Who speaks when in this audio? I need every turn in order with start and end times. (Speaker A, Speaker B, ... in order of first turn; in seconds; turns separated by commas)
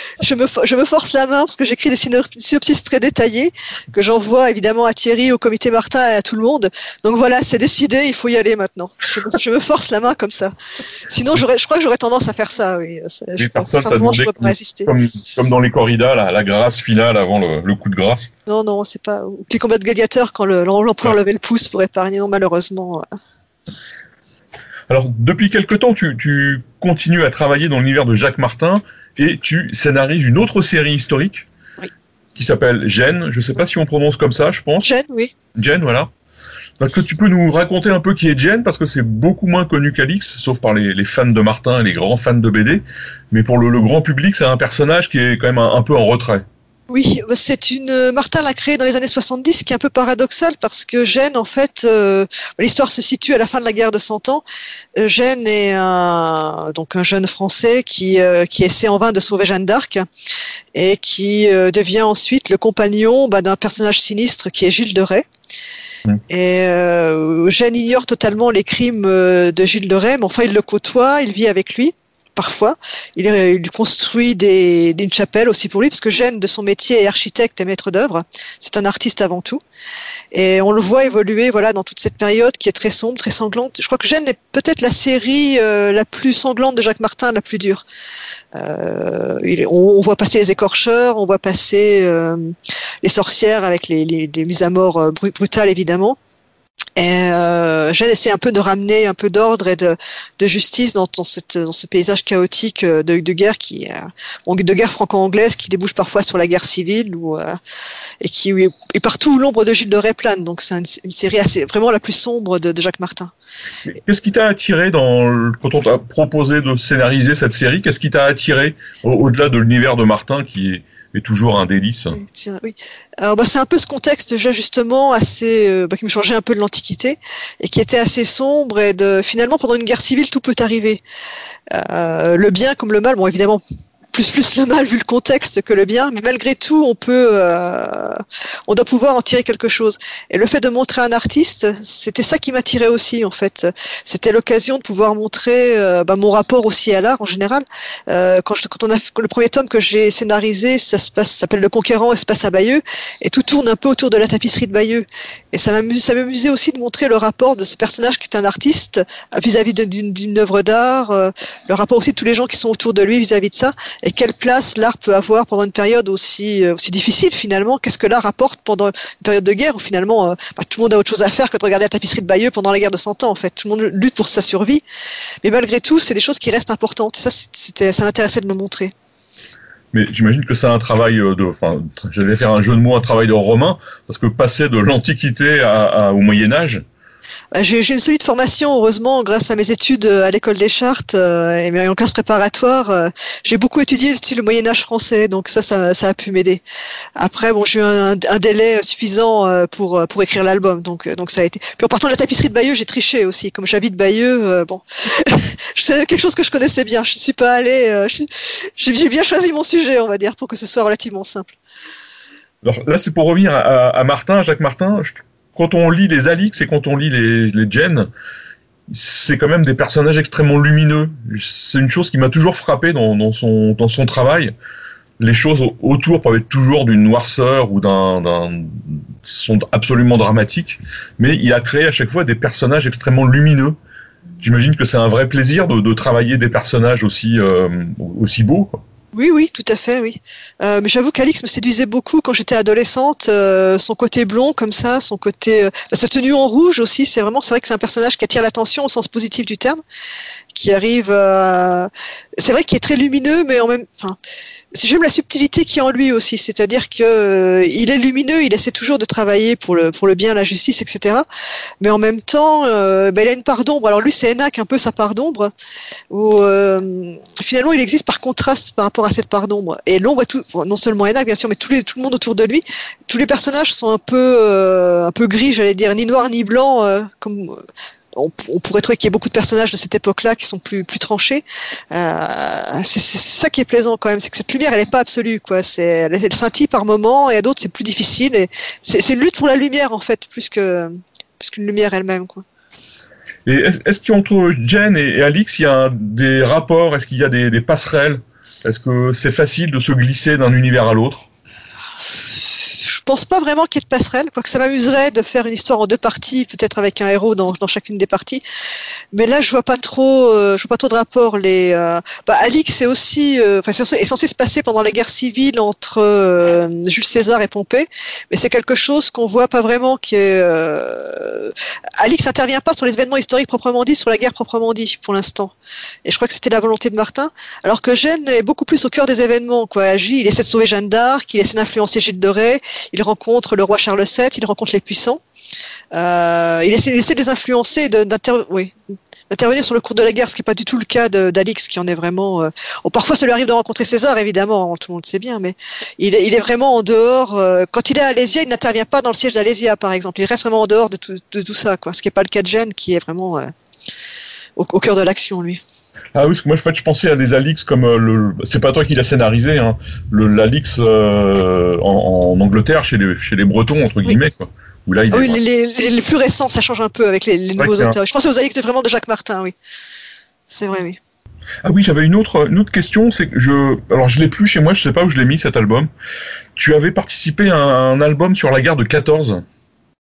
Speaker A: 0.2-10.5, Speaker A: 11.1-14.9, Speaker B: 13.4-18.3, Speaker A: 18.5-23.0, Speaker B: 24.9-31.4, Speaker B: 32.4-34.9, Speaker A: 34.8-35.3, Speaker B: 35.5-36.1, Speaker B: 36.8-46.4, Speaker A: 46.9-54.4, Speaker A: 55.0-60.0, Speaker A: 60.7-65.3, Speaker A: 66.3-79.6, Speaker A: 80.3-87.8, Speaker A: 88.5-96.2, Speaker A: 97.0-107.5, Speaker A: 108.2-113.3, Speaker B: 113.9-122.2, Speaker A: 122.1-131.0, Speaker A: 131.7-133.6, Speaker A: 134.1-174.8, Speaker A: 175.4-178.9, Speaker B: 179.9-186.8, Speaker A: 187.5-196.6, Speaker A: 197.2-211.5, Speaker B: 212.6-218.1, Speaker B: 218.9-224.5, Speaker B: 225.2-233.8, Speaker B: 234.4-238.8, Speaker A: 239.1-249.8, Speaker A: 250.5-254.2, Speaker A: 254.7-261.2, Speaker A: 261.8-265.5, Speaker A: 266.1-277.6, Speaker A: 278.1-292.4, Speaker B: 293.4-301.2, Speaker A: 302.7-308.4, Speaker A: 309.1-325.5, Speaker A: 326.0-335.2, Speaker A: 335.9-338.7, Speaker A: 339.3-353.5, Speaker A: 354.6-355.6, Speaker B: 356.1-365.4, Speaker A: 365.1-369.5, Speaker B: 367.6-367.9, Speaker A: 370.5-371.0, Speaker B: 371.6-375.9, Speaker B: 376.6-379.4